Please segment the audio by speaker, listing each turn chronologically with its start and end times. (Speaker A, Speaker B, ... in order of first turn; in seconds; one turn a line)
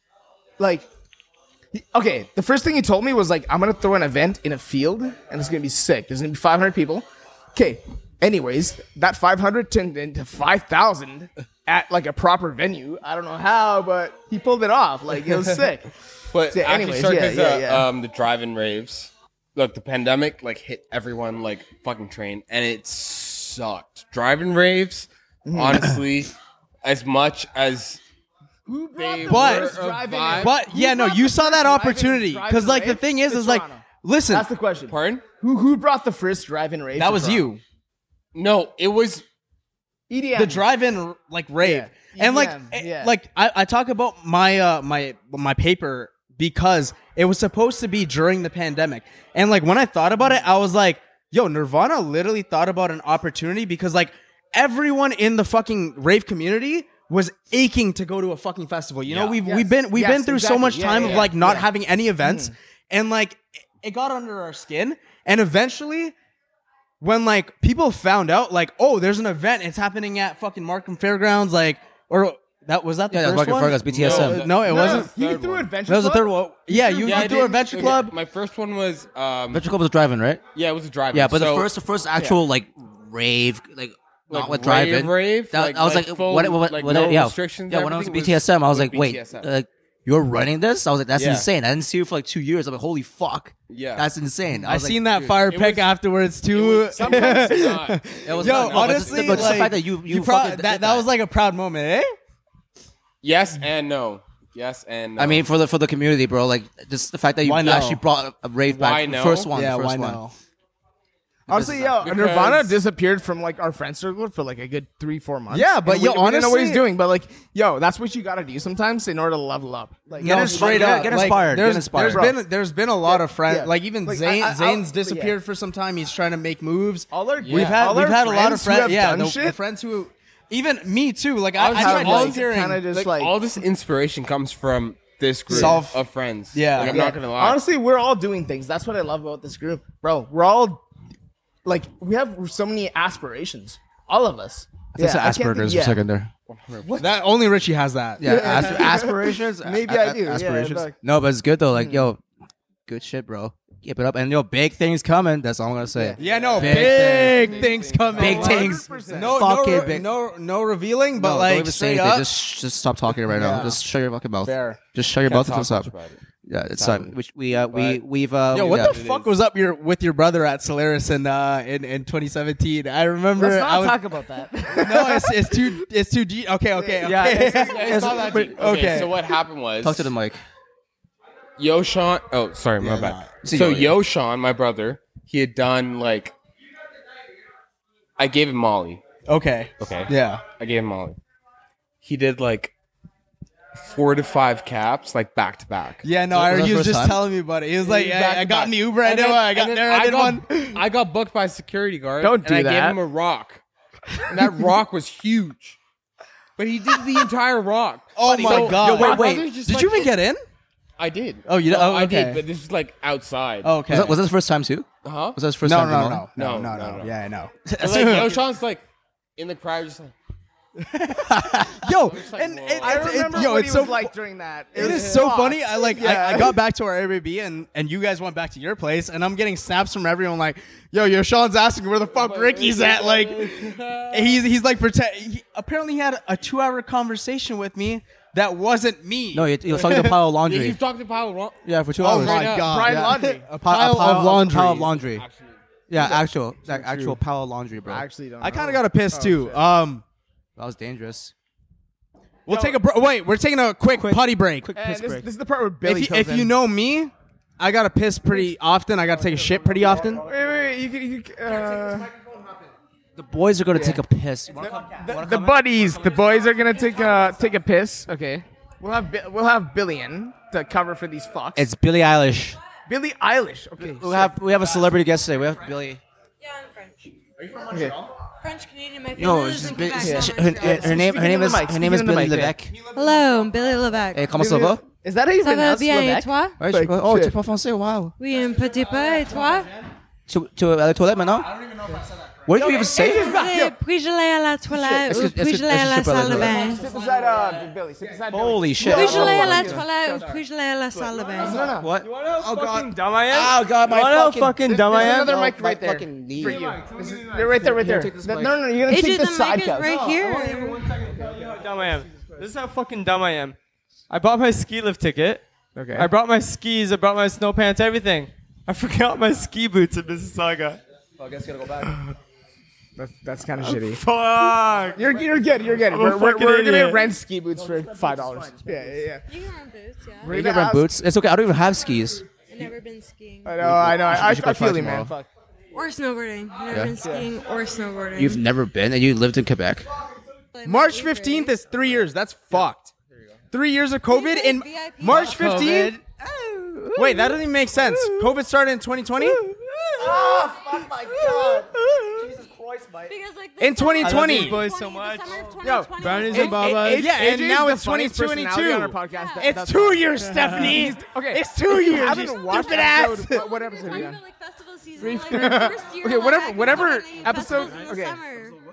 Speaker A: 0.6-0.9
Speaker A: 1.7-15.9
Speaker B: 16.3-28.0
Speaker A: 16.5-17.9
Speaker A: 25.4-26.0
Speaker A: 28.6-37.5
Speaker B: 28.9-30.6
Speaker C: 29.2-29.8
Speaker C: 30.4-34.5
Speaker B: 34.9-35.2
Speaker C: 37.0-37.6
Speaker B: 38.3-39.2
Speaker A: 40.1-40.6
Speaker C: 40.3-66.1
Speaker A: 41.6-43.1
Speaker A: 50.2-50.5
Speaker B: 59.1-59.4
Speaker A: 59.4-61.7
Speaker B: 61.0-61.3
Speaker A: 62.2-62.5
Speaker C: 67.0-75.1
Speaker D: 73.1-74.5
Speaker B: 73.8-75.7
Speaker A: 74.6-78.0
Speaker C: 75.9-78.1
Speaker B: 77.0-79.6
Speaker D: 79.5-80.4
Speaker B: 80.5-81.7
Speaker D: 81.1-95.1
Speaker A: 82.2-82.4
Speaker B: 84.3-89.5
Speaker B: 91.1-91.5
Speaker B: 93.7-94.1
Speaker C: 94.6-102.1
Speaker B: 95.2-95.9
Speaker B: 96.5-99.7
Speaker A: 97.0-97.6
Speaker D: 98.2-101.1
Speaker B: 103.2-105.5
Speaker D: 105.2-110.2
Speaker C: 107.4-108.0
Speaker B: 108.7-109.5
Speaker C: 109.5-110.3
Speaker D: 111.5-112.1
Speaker A: 111.5-121.5
Speaker B: 112.0-112.8
Speaker C: 115.5-116.8
Speaker C: 120.2-132.8
Speaker D: 120.2-122.3
Speaker A: 122.1-122.4
Speaker A: 123.0-125.4
Speaker A: 127.1-129.6
Speaker B: 127.4-127.9
Speaker B: 131.6-137.6
Speaker A: 131.7-133.3
Speaker A: 135.5-135.8
Speaker C: 135.5-136.0
Speaker C: 136.5-137.0
Speaker A: 136.7-140.8
Speaker A: 141.6-146.0
Speaker D: 144.9-146.3
Speaker B: 146.5-147.0
Speaker A: 146.8-147.1
Speaker C: 147.0-148.7
Speaker D: 148.2-152.2
Speaker A: 148.2-150.9
Speaker A: 151.7-152.1
Speaker D: 152.9-157.6
Speaker A: 155.9-159.4
Speaker C: 156.2-162.3
Speaker B: 156.2-156.9
Speaker B: 157.5-159.2
Speaker D: 158.1-160.1
Speaker D: 161.1-165.9
Speaker C: 163.3-163.8
Speaker C: 164.4-164.8
Speaker B: 165.2-166.2
Speaker D: 166.4-169.0
Speaker B: 166.7-167.9
Speaker C: 168.5-174.0
Speaker B: 168.6-169.3
Speaker A: 173.3-175.6
Speaker C: 174.7-179.1
Speaker A: 176.8-178.1
Speaker D: 177.0-178.7
Speaker B: 177.6-180.1
Speaker D: 179.8-180.4
Speaker B: 181.6-186.3
Speaker C: 182.8-183.3
Speaker D: 183.4-184.0
Speaker B: 188.2-189.0
Speaker C: 189.3-190.4
Speaker B: 189.8-191.2
Speaker B: 192.0-192.7
Speaker B: 193.8-196.0
Speaker C: 196.0-200.7
Speaker D: 196.3-197.2
Speaker B: 197.8-203.6
Speaker A: 202.2-203.0
Speaker B: 204.2-205.8
Speaker B: 206.6-210.2
Speaker C: 208.2-210.4
Speaker A: 208.2-208.9
Speaker D: 208.5-209.5
Speaker B: 211.0-213.8
Speaker C: 211.4-212.4
Speaker C: 213.6-214.2
Speaker D: 213.9-216.3
Speaker B: 215.0-215.4
Speaker C: 215.6-218.3
Speaker B: 216.3-217.1
Speaker B: 217.8-218.8
Speaker B: 219.4-220.1
Speaker C: 220.8-224.1
Speaker B: 221.7-223.5
Speaker A: 222.8-226.6
Speaker C: 224.7-239.8
Speaker B: 224.8-225.2
Speaker B: 232.1-234.4
Speaker D: 239.3-240.8
Speaker B: 239.8-242.9
Speaker D: 241.6-245.2
Speaker C: 242.0-244.9
Speaker A: 242.6-243.5
Speaker B: 244.9-245.6
Speaker D: 245.9-248.1
Speaker C: 246.8-247.1
Speaker A: 247.8-249.6
Speaker C: 248.4-250.0
Speaker D: 250.6-251.3
Speaker C: 252.4-254.7
Speaker A: 252.5-252.8
Speaker D: 253.9-255.3
Speaker A: 254.7-256.5
Speaker C: 255.8-260.2
Speaker A: 260.1-262.1
Speaker D: 263.1-265.6
Speaker A: 263.7-264.0
Speaker A: 264.6-271.7
Speaker D: 271.5-272.6
Speaker A: 272.9-274.4
Speaker D: 273.8-276.0
Speaker E: 276.4-277.1
Speaker A: 277.7-278.0
Speaker E: 278.4-281.3
Speaker D: 279.1-282.7
Speaker A: 280.0-282.6
Speaker E: 282.9-284.3
Speaker D: 284.1-284.8
Speaker A: 284.4-287.3
Speaker E: 285.4-286.6
Speaker D: 286.6-288.1
Speaker E: 288.2-289.8
Speaker D: 290.3-291.9
Speaker D: 292.4-293.4
Speaker A: 292.5-293.8
Speaker E: 292.6-296.9
Speaker A: 294.7-295.1
Speaker D: 295.0-296.8
Speaker A: 296.3-300.1
Speaker D: 298.3-299.9
Speaker E: 298.8-301.7
Speaker A: 301.4-301.9
Speaker D: 301.6-306.8
Speaker F: 302.0-305.3
Speaker A: 304.7-310.0
Speaker F: 306.4-306.9
Speaker D: 307.4-308.6
Speaker E: 308.9-310.9
Speaker F: 309.8-313.6
Speaker F: 314.1-315.4
Speaker A: 315.7-316.1
Speaker F: 315.9-320.8
Speaker D: 321.2-322.0
Speaker A: 323.0-324.0
Speaker F: 323.6-325.2
Speaker A: 324.9-329.2
Speaker F: 325.8-327.2
Speaker D: 328.0-328.8
Speaker E: 329.3-330.3
Speaker A: 330.2-330.9
Speaker D: 330.3-332.2
Speaker E: 332.5-333.6
Speaker A: 333.4-335.3
Speaker D: 333.6-335.1
Speaker E: 335.7-338.4
Speaker D: 336.7-336.9
Speaker A: 337.0-337.3
Speaker D: 338.2-339.9
Speaker E: 340.5-341.6
Speaker C: 340.6-342.9
Speaker C: 343.5-346.0
Speaker E: 344.1-345.9
Speaker B: 345.2-345.9
Speaker F: 345.3-348.2
Speaker C: 346.9-349.4
Speaker F: 349.2-352.9
Speaker D: 350.0-353.1
Speaker E: 353.1-356.9
Speaker C: 353.6-354.6
Speaker F: 354.0-357.1
Speaker A: 355.6-364.2
Speaker C: 356.4-363.3
Speaker E: 359.0-359.6
Speaker F: 360.2-360.9
Speaker E: 362.1-368.6
Speaker A: 365.0-368.2